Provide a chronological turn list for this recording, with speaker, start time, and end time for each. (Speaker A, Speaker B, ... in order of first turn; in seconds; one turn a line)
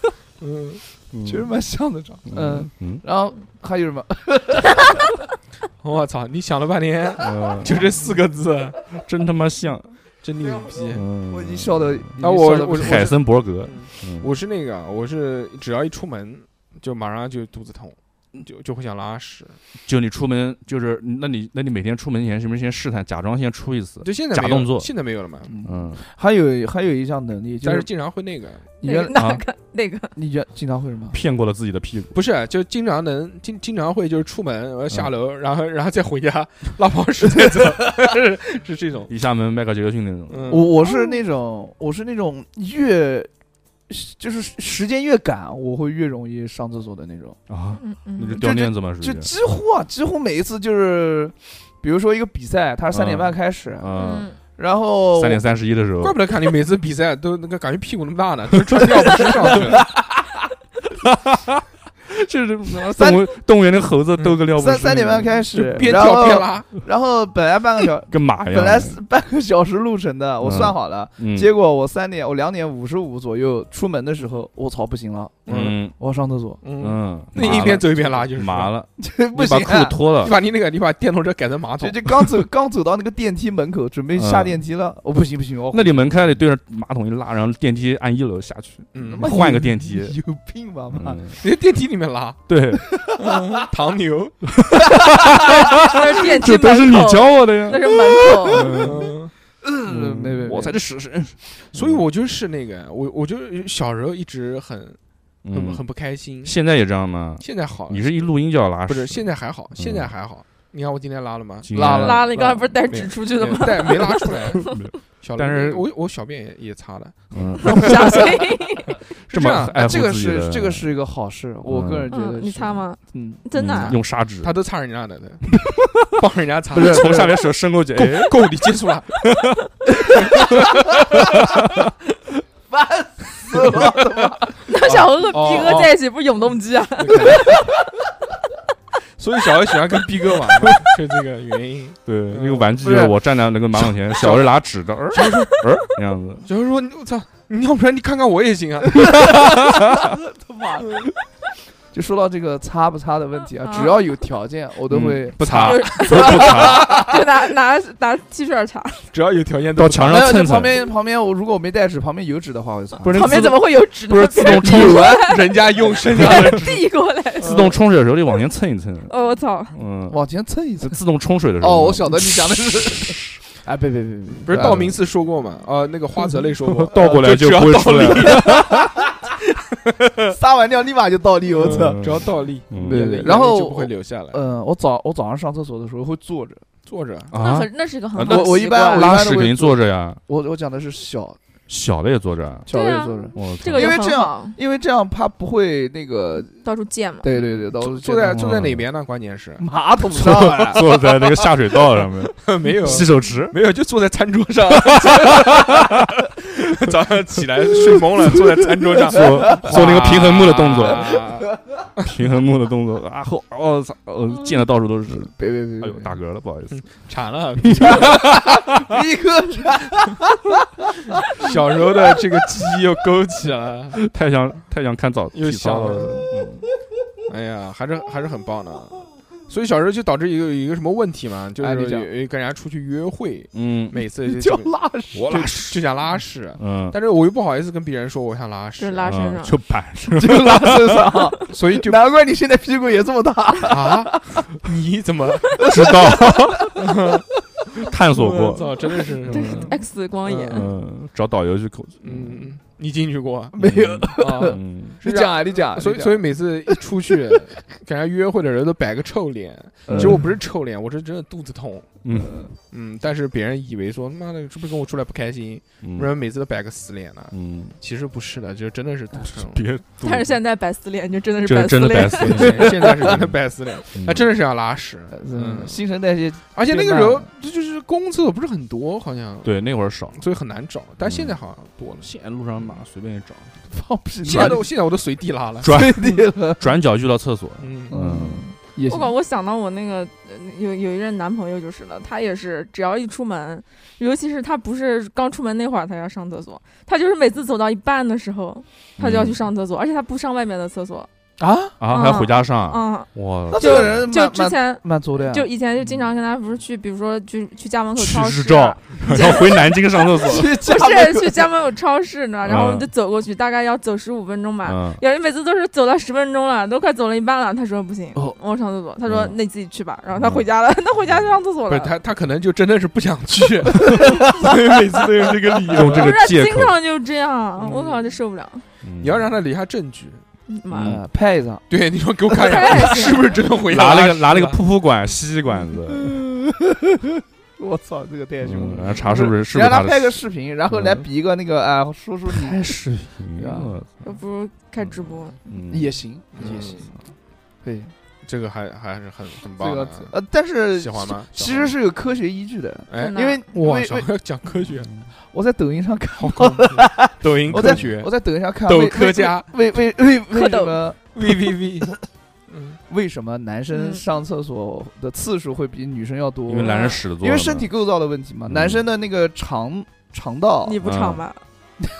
Speaker A: 0.4-0.8
Speaker B: 1.1-1.5
Speaker C: 1.2-5.0
Speaker B: 2.3-3.0
Speaker A: 5.8-8.8
Speaker B: 7.2-7.8
Speaker B: 8.9-9.9
Speaker A: 10.2-11.0
Speaker B: 10.9-12.1
Speaker C: 11.3-13.1
Speaker A: 12.2-19.6
Speaker B: 12.7-14.3
Speaker B: 19.8-24.9
Speaker A: 24.0-25.5
Speaker C: 25.5-27.9
Speaker B: 25.6-26.0
Speaker A: 27.6-28.7
Speaker C: 28.8-29.2
Speaker D: 28.8-30.1
Speaker B: 29.1-29.4
Speaker C: 30.1-31.2
Speaker B: 31.1-32.1
Speaker A: 32.1-39.1
Speaker B: 39.1-40.6
Speaker A: 40.3-40.7
Speaker C: 40.5-43.3
Speaker D: 40.9-41.2
Speaker C: 43.9-47.4
Speaker B: 47.5-49.3
Speaker D: 47.8-48.5
Speaker C: 48.3-55.4
Speaker B: 52.9-54.3
Speaker D: 53.9-54.4
Speaker B: 55.1-56.2
Speaker A: 56.0-59.9
Speaker C: 59.7-60.0
Speaker B: 61.0-66.0
Speaker C: 62.9-63.3
Speaker C: 64.5-76.6
Speaker A: 65.5-66.7
Speaker B: 68.1-69.0
Speaker B: 70.4-71.5
Speaker A: 75.5-75.8
Speaker B: 75.5-75.9
Speaker A: 76.6-78.7
Speaker B: 76.8-80.3
Speaker C: 77.3-77.8
Speaker C: 79.0-80.0
Speaker A: 80.2-82.4
Speaker C: 81.8-86.1
Speaker B: 84.1-84.5
Speaker B: 85.7-90.2
Speaker A: 88.9-89.3
Speaker C: 89.0-91.2
Speaker B: 90.9-91.4
Speaker A: 91.4-92.4
Speaker B: 92.5-92.9
Speaker C: 92.9-93.3
Speaker A: 93.0-94.5
Speaker B: 94.6-98.0
Speaker C: 95.0-95.5
Speaker D: 95.4-98.8
Speaker C: 98.4-99.1
Speaker B: 98.5-99.0
Speaker A: 98.6-99.3
Speaker C: 99.6-100.8
Speaker B: 99.8-102.0
Speaker A: 101.7-105.0
Speaker B: 105.4-105.8
Speaker A: 105.5-106.5
Speaker B: 106.4-110.1
Speaker A: 107.4-111.8
Speaker B: 111.6-112.3
Speaker C: 111.7-112.7
Speaker D: 111.8-114.9
Speaker A: 112.9-118.2
Speaker B: 114.6-115.9
Speaker B: 117.3-118.2
Speaker D: 117.6-119.0
Speaker A: 119.3-119.9
Speaker B: 119.3-120.9
Speaker C: 119.7-123.4
Speaker B: 121.7-122.1
Speaker D: 122.1-124.0
Speaker B: 123.5-124.5
Speaker A: 124.4-125.5
Speaker A: 126.1-127.4
Speaker B: 126.7-128.4
Speaker C: 126.7-127.3
Speaker A: 127.9-129.2
Speaker B: 129.2-129.6
Speaker A: 130.1-130.9
Speaker B: 131.0-131.9
Speaker C: 132.7-134.5
Speaker A: 133.6-133.9
Speaker D: 134.7-137.6
Speaker A: 134.7-135.9
Speaker A: 137.0-137.6
Speaker A: 139.2-143.1
Speaker B: 142.1-146.4
Speaker C: 142.8-143.1
Speaker A: 143.7-144.5
Speaker A: 145.1-145.6
Speaker A: 146.4-149.5
Speaker B: 149.2-150.1
Speaker C: 150.0-151.0
Speaker C: 151.9-157.0
Speaker D: 153.6-154.0
Speaker B: 154.9-157.0
Speaker A: 155.4-157.0
Speaker D: 155.6-159.0
Speaker A: 159.1-160.3
Speaker B: 159.8-160.8
Speaker C: 160.1-163.5
Speaker B: 163.0-165.2
Speaker D: 163.1-165.6
Speaker A: 164.5-166.8
Speaker C: 164.5-165.2
Speaker D: 166.1-167.7
Speaker B: 166.2-166.5
Speaker B: 167.4-169.1
Speaker D: 169.1-169.7
Speaker B: 169.7-170.2
Speaker C: 170.1-171.0
Speaker B: 170.8-173.2
Speaker C: 171.6-174.9
Speaker A: 174.4-179.0
Speaker B: 176.6-178.9
Speaker A: 180.0-180.3
Speaker C: 180.3-182.0
Speaker A: 181.5-184.4
Speaker B: 181.6-183.3
Speaker C: 182.7-186.6
Speaker A: 186.8-187.3
Speaker B: 187.3-190.2
Speaker D: 187.3-189.2
Speaker C: 188.2-191.4
Speaker B: 191.7-192.7
Speaker C: 192.7-196.6
Speaker D: 192.7-194.6
Speaker B: 193.3-194.0
Speaker D: 196.6-197.3
Speaker C: 197.2-198.4
Speaker A: 197.4-199.6
Speaker B: 198.3-198.8
Speaker C: 199.6-200.8
Speaker B: 200.1-203.6
Speaker A: 202.4-212.1
Speaker B: 205.3-205.9
Speaker B: 209.1-211.2
Speaker C: 209.2-209.7
Speaker B: 212.0-216.8
Speaker C: 215.1-216.1
Speaker A: 216.7-218.5
Speaker B: 217.6-218.6
Speaker C: 217.8-220.5
Speaker A: 221.3-224.0
Speaker B: 224.0-226.6
Speaker A: 225.3-226.2
Speaker A: 227.3-239.2
Speaker C: 231.6-232.1
Speaker B: 233.5-234.0
Speaker C: 234.3-235.5
Speaker B: 235.1-235.8
Speaker B: 236.6-236.9
Speaker D: 238.8-239.6
Speaker B: 239.0-241.1
Speaker C: 240.1-244.4
Speaker A: 241.5-242.0
Speaker A: 243.7-245.7
Speaker C: 245.5-247.1
Speaker B: 245.6-246.8
Speaker A: 246.8-247.2
Speaker B: 247.7-248.8
Speaker A: 248.1-250.7
Speaker B: 249.3-249.6
Speaker D: 249.3-250.7
Speaker C: 249.3-249.7
Speaker B: 250.4-252.4
Speaker A: 252.0-253.5
Speaker C: 253.5-256.8
Speaker B: 253.6-255.0
Speaker A: 254.2-262.0
Speaker C: 259.9-260.3
Speaker B: 259.9-260.3
Speaker B: 262.0-262.4
Speaker C: 262.2-262.5
Speaker A: 262.7-269.6
Speaker B: 265.8-266.1
Speaker B: 267.3-267.7
Speaker B: 269.3-270.4
Speaker D: 270.0-272.7
Speaker B: 271.4-273.3
Speaker A: 272.1-275.8
Speaker B: 273.9-274.3
Speaker C: 275.1-277.3
Speaker A: 276.5-279.6
Speaker B: 279.4-280.2
Speaker A: 280.1-282.1
Speaker B: 281.0-281.4
Speaker B: 282.0-283.5
Speaker C: 283.7-284.7
Speaker A: 284.2-286.2
Speaker B: 284.3-284.6
Speaker B: 285.6-288.4
Speaker C: 285.6-286.6
Speaker A: 287.6-287.9
Speaker C: 287.9-289.1
Speaker D: 288.9-301.1
Speaker B: 299.0-299.4
Speaker C: 301.4-301.7
Speaker B: 301.8-304.1
Speaker D: 301.9-321.9
Speaker C: 303.5-305.5
Speaker B: 307.9-310.6
Speaker C: 310.3-311.5
Speaker B: 312.4-312.9
Speaker B: 314.6-315.0
Speaker B: 319.1-319.4
Speaker B: 320.1-320.5
Speaker A: 321.7-326.1
Speaker C: 323.9-324.5
Speaker B: 325.7-326.8
Speaker D: 325.8-328.6
Speaker A: 327.6-328.2
Speaker B: 328.8-329.3
Speaker A: 329.0-330.2
Speaker D: 330.5-331.0
Speaker B: 330.7-331.0
Speaker C: 330.8-331.6
Speaker A: 331.7-334.6
Speaker D: 332.4-333.4
Speaker B: 333.6-336.2
Speaker C: 335.9-342.6
Speaker B: 338.4-341.0
Speaker B: 342.3-344.0
Speaker C: 343.4-343.7
Speaker D: 344.0-345.4
Speaker B: 345.4-345.9
Speaker C: 345.7-346.9
Speaker A: 346.3-346.9
Speaker C: 347.6-347.9
Speaker A: 348.2-350.1
Speaker C: 349.6-354.1
Speaker A: 350.7-351.7
Speaker A: 352.9-354.9
Speaker D: 353.0-353.4
Speaker C: 355.3-361.3
Speaker A: 356.2-358.1
Speaker A: 358.6-359.5
Speaker D: 360.3-360.8
Speaker A: 361.1-361.9
Speaker A: 362.5-362.8
Speaker C: 362.9-370.8
Speaker D: 363.7-364.0
Speaker B: 366.5-367.7
Speaker D: 366.6-367.0
Speaker B: 368.5-368.8
Speaker D: 370.6-371.4
Speaker B: 370.8-371.2